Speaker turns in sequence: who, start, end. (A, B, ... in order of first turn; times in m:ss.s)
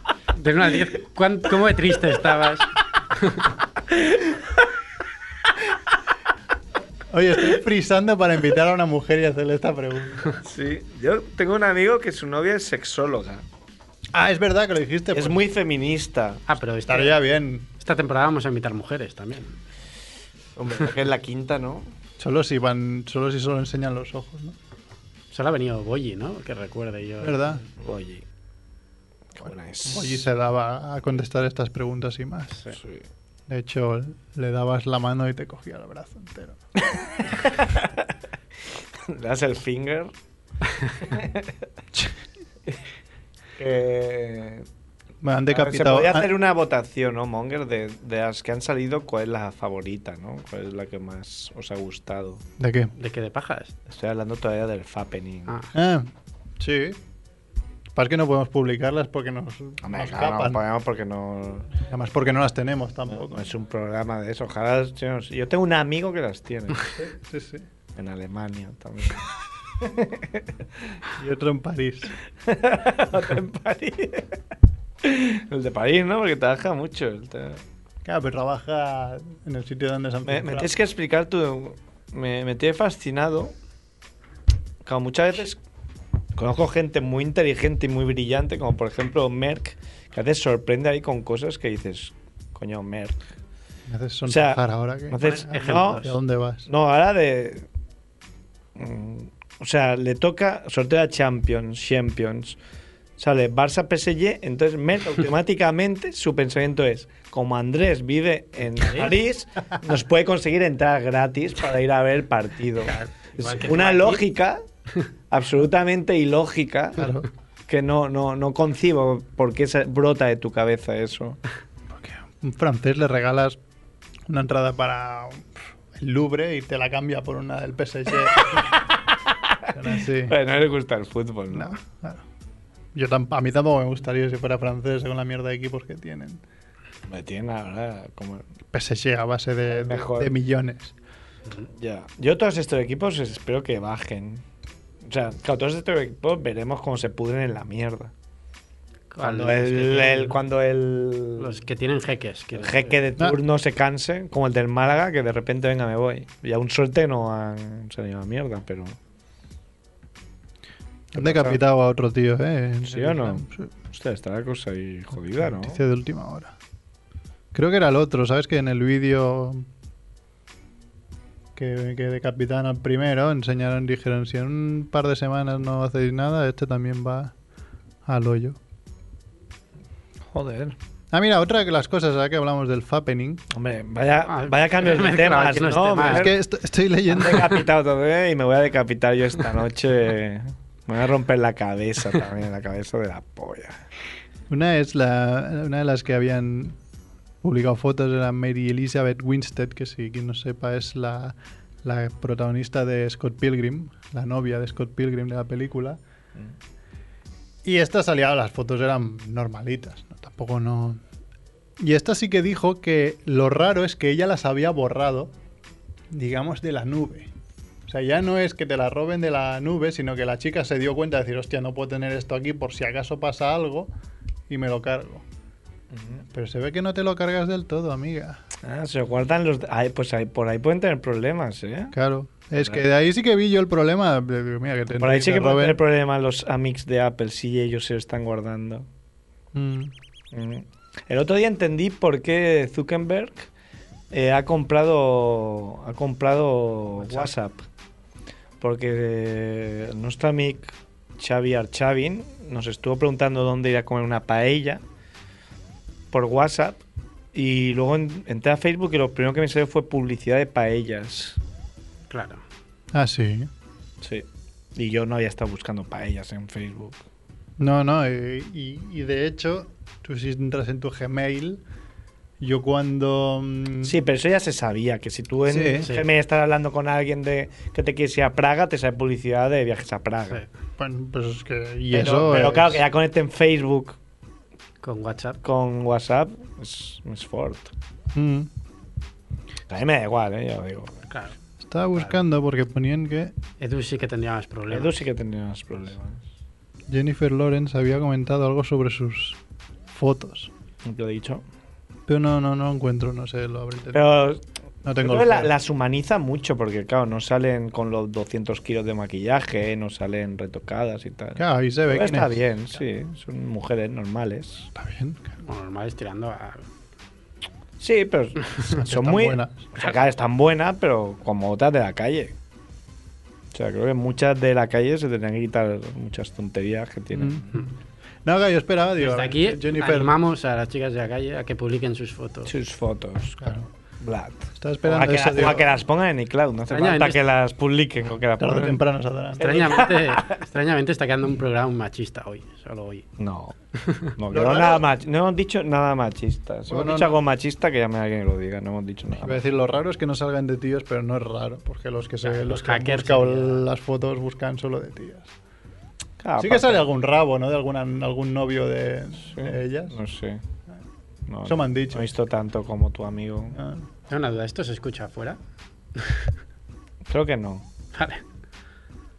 0:00.4-0:02.7 A
0:03.2-0:03.5 A
0:03.9-0:04.4 B
0:07.1-0:10.4 C
0:10.4-0:13.4 B
0:14.1-0:15.4 C
0:15.1-0:16.4 B
0:16.5-0:17.2 A
0:16.9-0:17.7 C
0:17.8-0:19.5 A
0:20.6-0:21.9 B
0:22.2-0:24.6 C
0:25.3-0:27.6 A
0:27.2-0:27.6 C
0:27.8-0:28.2 B
0:29.4-0:30.3 B
0:29.8-0:32.6 C
0:32.7-0:33.0 B
0:33.5-0:36.6 C
0:36.9-0:38.1 B
0:39.0-0:40.1 B
0:41.0-0:41.5 B
0:43.6-0:44.7 B
0:45.2-0:46.3 C
0:45.5-0:52.4 B
0:52.6-0:52.9 C
0:53.0-0:53.7 A
0:53.9-0:55.5 B
0:55.7-0:57.0 C
0:58.0-1:00.6 C
0:59.8-1:01.7 B
1:01.8-1:03.5 C
1:03.1-1:06.9 B
1:07.0-1:07.7 C
1:08.0-1:09.3 B
1:09.8-1:10.5 B
1:11.1-1:12.1 C
1:12.4-1:14.3 B
1:15.0-1:17.6 B
1:18.0-1:20.8 C
1:20.3-1:23.5 B
1:24.8-1:25.6 B
1:26.4-1:33.2 B
1:33.9-1:36.7 C
1:34.3-1:36.1 B
1:35.5-1:36.0 A
1:36.7-1:37.7 B
1:38.8-1:42.6 B
1:43.2-1:54.6 B
1:48.8-1:49.1 A
1:52.9-1:54.2 A
1:55.3-1:57.0 B
1:57.0-1:57.3 C
1:57.7-2:01.4 B
2:01.9-2:03.6 C
2:04.3-2:08.7 C
2:09.7-2:10.4 C
2:10.2-2:11.8 B
2:11.5-2:12.2 C
2:12.9-2:16.4 C
2:17.1-2:18.5 B
2:18.7-2:20.9 C
2:19.7-2:20.3 B
2:21.7-2:24.4 B
2:25.0-2:28.1 B
2:29.1-2:30.4 A
2:29.2-2:31.6 B
2:31.4-2:33.0 A
2:32.5-2:39.0 B
2:41.1-2:43.7 C
2:41.1-2:41.6 B
2:42.8-2:45.8 B
2:45.4-2:46.5 C
2:47.5-2:49.7 C
2:51.6-2:57.3 C
2:58.1-2:58.6 C
3:00.3-3:00.8 B
3:01.1-3:03.4 C
3:03.5-3:06.4 B
3:04.3-3:06.3 A
3:06.1-3:07.6 C
3:07.1-3:13.8 B
3:14.5-3:16.8 C
3:17.4-3:26.0 C
3:27.6-3:31.0 C
3:31.8-3:35.3 C
3:36.1-3:37.3 C
3:37.9-3:43.9 C
3:44.5-3:45.2 C
3:45.9-3:46.2 B
3:46.3-3:48.4 C
3:48.6-3:52.0 B
3:51.9-3:55.8 C
3:52.6-3:52.8 B
3:55.0-3:58.9 B
3:59.5-3:59.9 C
4:00.3-4:03.5 B
4:04.1-4:07.6 B
4:08.6-4:14.8 B
4:16.1-4:16.8 B
4:17.3-4:21.4 B
4:22.1-4:22.4 A
4:22.9-4:23.5 C
4:24.0-4:27.0 B
4:27.6-4:31.6 C
4:32.4-4:34.0 C
4:33.8-4:40.4 B
4:35.5-4:35.9 C
4:35.8-4:36.1 A
4:40.8-4:42.8 C
4:41.9-4:44.0 B
4:44.8-4:45.4 A
4:45.4-4:47.7 B
4:48.1-4:48.5 C
4:49.7-4:51.1 B
4:51.6-4:53.4 C
4:53.6-4:55.0 A
4:54.7-4:56.2 B
4:56.9-4:59.4 C
4:59.9-5:00.5 C
5:00.8-5:01.4 B
5:02.1-5:04.2 C
5:03.9-5:04.4 B
5:04.8-5:05.5 C
5:05.0-5:14.7 B
5:11.4-5:12.4 C
5:14.8-5:15.4 C
5:15.4-5:16.6 A
5:17.8-5:22.4 B
5:18.8-5:19.7 C
5:23.5-5:27.5 B
5:27.1-5:27.7 C
5:28.2-5:30.2 C
5:29.0-5:32.5 A
5:32.5-5:38.8 B
5:34.6-5:35.7 C
5:36.7-5:37.2 A
5:38.4-5:39.6 C
5:39.4-5:43.0 A
5:39.4-5:40.4 B
5:43.2-5:49.4 B
5:44.3-5:44.9 C
5:46.7-5:47.2 C
5:49.2-5:55.3 C
5:52.2-5:53.6 A
5:56.2-5:56.8 B
5:56.4-6:00.0 C
5:59.2-6:00.4 B
6:01.3-6:03.6 B
6:01.4-6:02.1 C
6:03.5-6:03.8 C
6:04.1-6:05.4 A
6:07.1-6:07.7 B
6:07.9-6:08.2 A